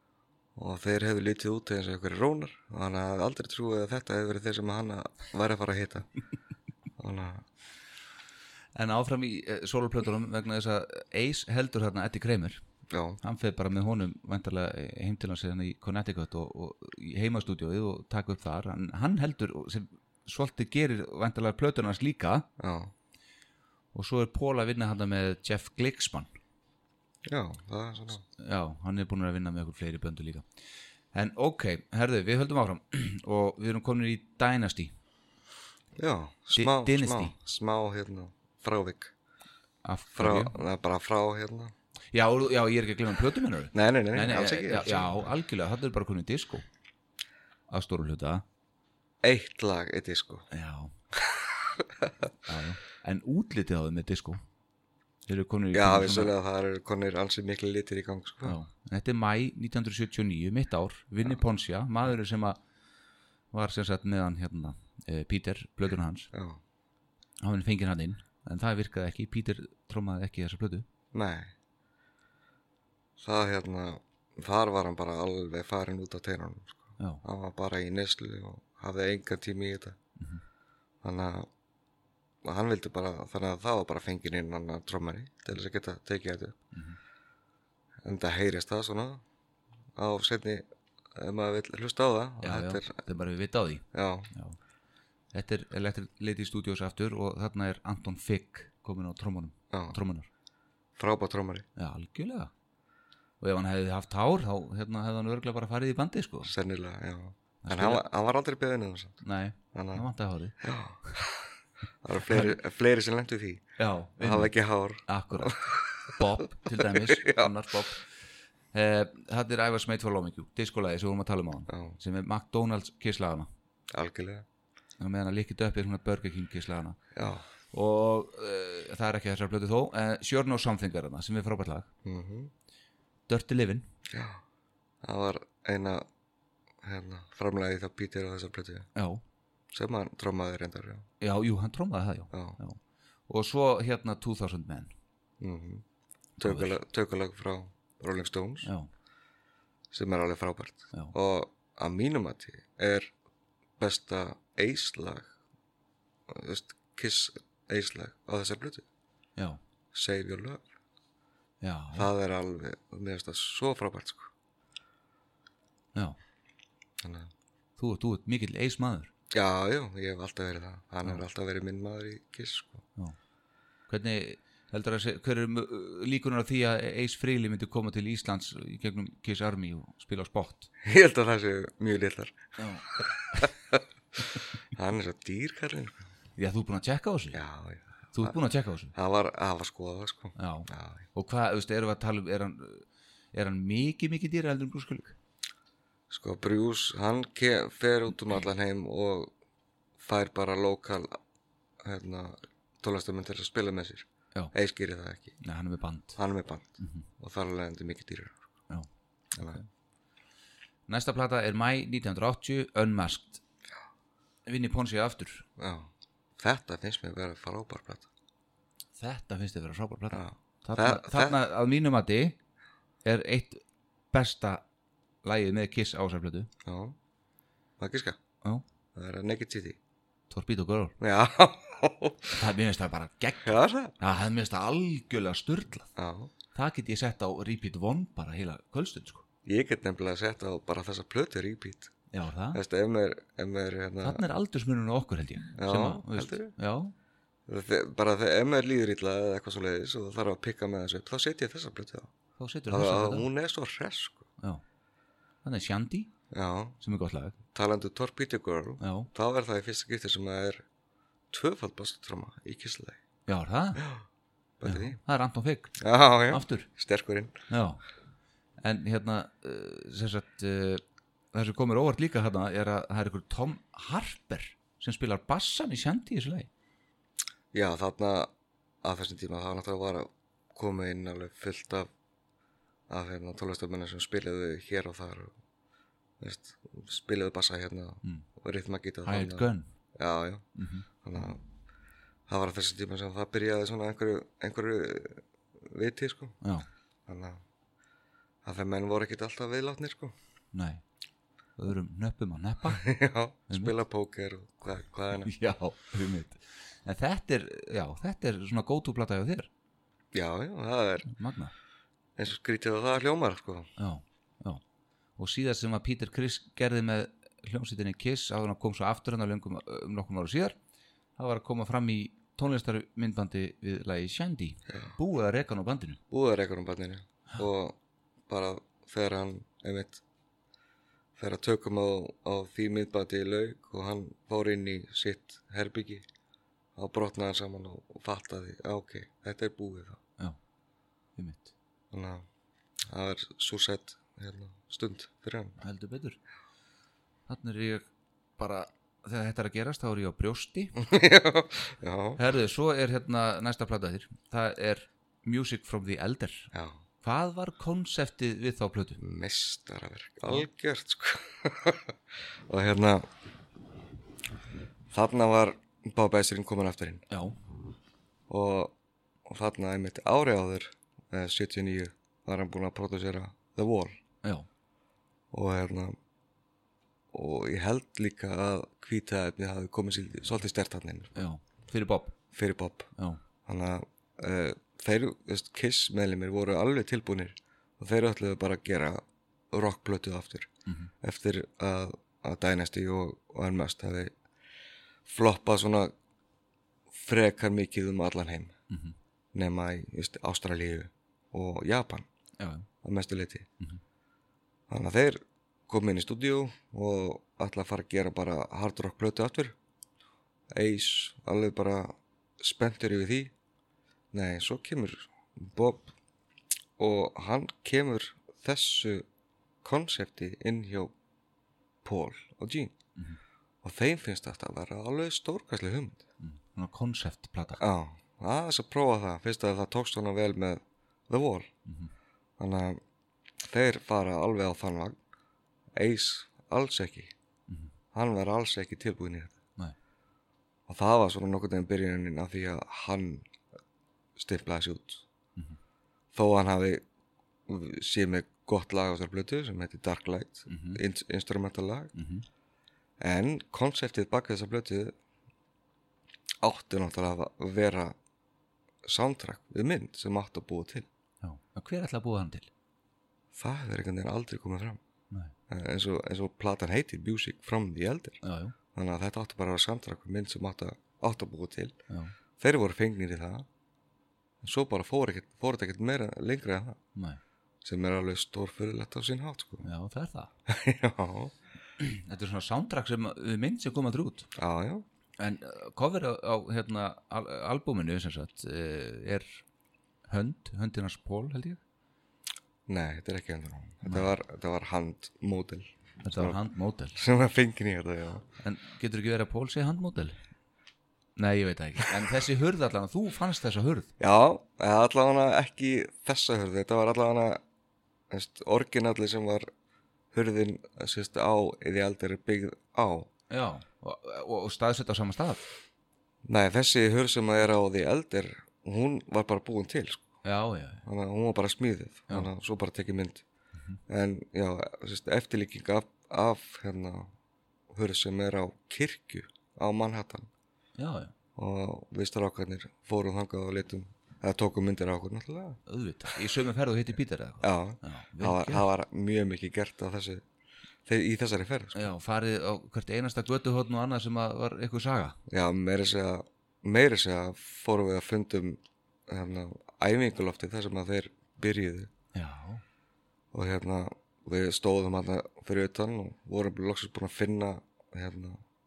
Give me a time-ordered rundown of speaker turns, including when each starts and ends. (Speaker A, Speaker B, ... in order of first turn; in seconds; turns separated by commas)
Speaker A: 0.6-6.1, Speaker A: 7.0-7.5, Speaker B: 8.7-12.6, Speaker A: 12.9-13.2, Speaker B: 13.2-22.5, Speaker A: 22.6-22.9, Speaker B: 23.9-26.3, Speaker A: 27.2-28.2, Speaker B: 28.4-30.4, Speaker B: 31.1-34.9, Speaker A: 36.0-39.1, Speaker B: 36.5-37.3, Speaker B: 39.8-40.6, Speaker A: 40.1-41.7, Speaker B: 42.1-46.6, Speaker A: 43.7-45.1, Speaker B: 47.7-48.4, Speaker A: 49.2-50.5, Speaker B: 50.5-50.9, Speaker A: 51.1-52.3, Speaker B: 52.4-54.4, Speaker B: 55.3-56.3, Speaker A: 55.7-58.5, Speaker B: 58.4-62.6, Speaker B: 63.5-66.3, Speaker A: 66.3-66.6, Speaker B: 67.4-70.9, Speaker A: 71.1-71.5, Speaker A: 73.2-80.0, Speaker B: 77.0-77.2, Speaker A: 81.0-81.5, Speaker A: 82.4-86.6, Speaker B: 86.7-87.0, Speaker A: 88.0-89.2, Speaker A: 90.0-90.6, Speaker A: 91.1-93.0, Speaker B: 92.4-94.6, Speaker A: 93.9-94.3, Speaker B: 95.3-100.3, Speaker A: 99.7-100.0, Speaker A: 101.0-101.7, Speaker B: 101.8-102.5, Speaker B: 103.4-106.5, Speaker A: 106.4-109.2, Speaker B: 107.6-108.0, Speaker B: 109.2-110.6, Speaker A: 109.7-110.0, Speaker A: 110.6-113.6, Speaker B: 112.2-112.5, Speaker B: 113.8-114.5, Speaker A: 114.2-117.5, Speaker B: 115.1-118.2, Speaker B: 118.7-123.5, Speaker A: 121.7-122.0, Speaker A: 123.9-124.5, Speaker B: 125.0-127.0, Speaker A: 127.1-127.4, Speaker B: 127.7-131.9, Speaker A: 132.0-132.5, Speaker B: 133.3-133.8, Speaker A: 134.1-134.4, Speaker A: 135.0-136.1, Speaker A: 136.8-138.9, Speaker B: 138.9-139.2, Speaker A: 139.7-141.1, Speaker B: 141.2-144.9, Speaker A: 142.3-142.6, Speaker A: 145.4-145.8, Speaker A: 146.4-148.7, Speaker B: 146.4-146.7, Speaker B: 148.6-148.9, Speaker A: 149.9-153.1, Speaker A: 153.8-155.3, Speaker A: 156.3-158.8, Speaker A: 159.9-160.6, Speaker B: 161.6-162.1, Speaker A: 161.9-164.3, Speaker A: 167.0-167.3, Speaker B: 167.8-169.1, Speaker A: 169.3-172.8, Speaker B: 173.9-180.7, Speaker A: 180.8-182.4, Speaker B: 182.6-183.5, Speaker A: 182.9-183.8, Speaker A: 184.7-186.0, Speaker B: 186.4-187.4, Speaker A: 187.3-188.4, Speaker B: 188.1-188.9, Speaker A: 188.9-191.0, Speaker B: 190.3-195.2, Speaker A: 196.1-199.3, Speaker A: 200.0-201.2, Speaker A: 201.8-205.3, Speaker B: 205.4-206.2, Speaker A: 206.2-208.4, Speaker B: 206.8-207.0, Speaker B: 209.4-209.7, Speaker B: 210.9-213.4, Speaker B: 214.4-215.5, Speaker A: 215.6-218.1, Speaker B: 219.0-222.3, Speaker A: 220.1-221.4, Speaker B: 223.0-224.6, Speaker B: 225.2-226.5, Speaker A: 226.6-226.9, Speaker A: 227.8-228.2, Speaker A: 228.9-229.8, Speaker B: 230.3-230.9, Speaker A: 231.0-232.4, Speaker B: 232.3-235.9, Speaker A: 233.4-233.9, Speaker A: 235.9-236.3, Speaker B: 236.5-239.2, Speaker A: 239.4-241.9, Speaker B: 242.1-242.6, Speaker A: 242.5-244.2, Speaker B: 244.0-246.9, Speaker A: 245.6-246.5, Speaker A: 247.5-252.1, Speaker B: 252.4-253.3, Speaker A: 252.7-254.3, Speaker B: 255.4-256.1, Speaker A: 256.3-256.8, Speaker B: 256.8-257.4, Speaker A: 257.5-260.6, Speaker B: 258.8-259.1, Speaker A: 261.3-263.0, Speaker B: 263.3-263.9, Speaker A: 263.8-264.0, Speaker A: 264.6-265.0, Speaker B: 264.6-266.7, Speaker A: 265.8-267.3, Speaker B: 267.5-267.8, Speaker B: 268.6-270.8, Speaker B: 271.3-276.5, Speaker A: 277.5-278.3, Speaker A: 278.8-281.9, Speaker A: 282.9-285.3, Speaker A: 286.2-290.4, Speaker B: 289.0-289.7, Speaker B: 290.6-290.9, Speaker A: 291.0-291.4, Speaker A: 292.3-296.4, Speaker B: 296.4-296.7, Speaker A: 297.1-297.4, Speaker A: 298.4-300.1, Speaker B: 300.5-300.8, Speaker B: 301.6-302.9, Speaker A: 302.7-305.3, Speaker B: 303.5-303.8, Speaker B: 305.1-309.5, Speaker A: 310.1-311.1, Speaker B: 311.1-311.5, Speaker A: 312.2-313.7, Speaker B: 313.8-314.6, Speaker B: 315.2-320.6, Speaker B: 321.2-326.0, Speaker A: 324.7-324.9, Speaker A: 326.1-327.8, Speaker A: 328.3-330.0, Speaker A: 331.2-336.0, Speaker A: 336.8-340.0, Speaker B: 341.2-341.5, Speaker A: 341.9-342.2, Speaker A: 342.9-345.6, Speaker B: 345.6-346.2, Speaker B: 347.3-350.9, Speaker A: 350.8-352.2, Speaker B: 352.2-356.5, Speaker A: 356.5-356.8, Speaker B: 357.0-359.0, Speaker A: 359.0-363.1, Speaker A: 364.9-367.0, Speaker B: 367.1-367.4, Speaker A: 368.3-368.7, Speaker A: 369.3-374.0, Speaker A: 375.3-375.9, Speaker A: 377.1-381.1, Speaker B: 381.1-382.2, Speaker A: 382.3-382.9, Speaker B: 382.9-383.2, Speaker A: 383.4-390.5, Speaker B: 390.6-390.9, Speaker A: 391.0-394.1, Speaker A: 395.1-395.9, Speaker A: 396.9-398.5, Speaker B: 398.7-398.9, Speaker A: 399.3-402.1, Speaker B: 402.4-402.7, Speaker A: 402.8-403.5, Speaker A: 404.7-409.6, Speaker A: 410.5-413.3, Speaker A: 414.1-415.9, Speaker A: 416.8-419.1, Speaker A: 419.6-420.9, Speaker A: 421.8-422.7, Speaker A: 423.6-426.0, Speaker B: 426.2-427.6, Speaker A: 427.6-431.5, Speaker A: 432.4-432.8, Speaker A: 433.4-435.0, Speaker A: 435.8-437.1, Speaker A: 437.9-439.4, Speaker A: 440.7-443.2, Speaker A: 444.1-445.0, Speaker A: 446.1-446.8, Speaker A: 447.5-451.9, Speaker B: 450.5-450.8, Speaker B: 451.9-452.2, Speaker A: 453.0-454.9, Speaker A: 456.4-457.9, Speaker A: 458.8-460.9, Speaker B: 461.2-462.5, Speaker A: 463.3-464.8, Speaker A: 465.5-468.2, Speaker B: 468.2-468.5, Speaker A: 468.7-471.8, Speaker B: 471.9-472.1, Speaker A: 472.4-473.5, Speaker A: 474.4-476.8, Speaker B: 476.9-477.2, Speaker A: 477.6-479.6, Speaker B: 479.6-480.3, Speaker A: 480.5-481.3, Speaker B: 481.8-484.3, Speaker A: 484.4-484.8, Speaker B: 485.2-489.4, Speaker B: 490.1-491.6, Speaker A: 492.7-496.4, Speaker B: 493.9-494.1, Speaker B: 496.0-497.0, Speaker A: 496.9-498.2, Speaker B: 498.4-500.2, Speaker B: 501.2-503.9, Speaker A: 504.0-507.4, Speaker A: 508.1-509.5, Speaker A: 510.1-513.1, Speaker B: 513.3-515.4, Speaker A: 516.2-520.0, Speaker B: 520.2-520.9, Speaker A: 520.9-523.2, Speaker A: 523.9-527.1, Speaker A: 527.7-530.3, Speaker B: 530.8-531.1, Speaker A: 531.4-535.6, Speaker B: 535.7-538.7, Speaker A: 537.4-540.2, Speaker A: 540.9-541.9, Speaker B: 541.7-545.2, Speaker A: 545.3-551.9, Speaker B: 552.1-552.6, Speaker A: 553.3-558.4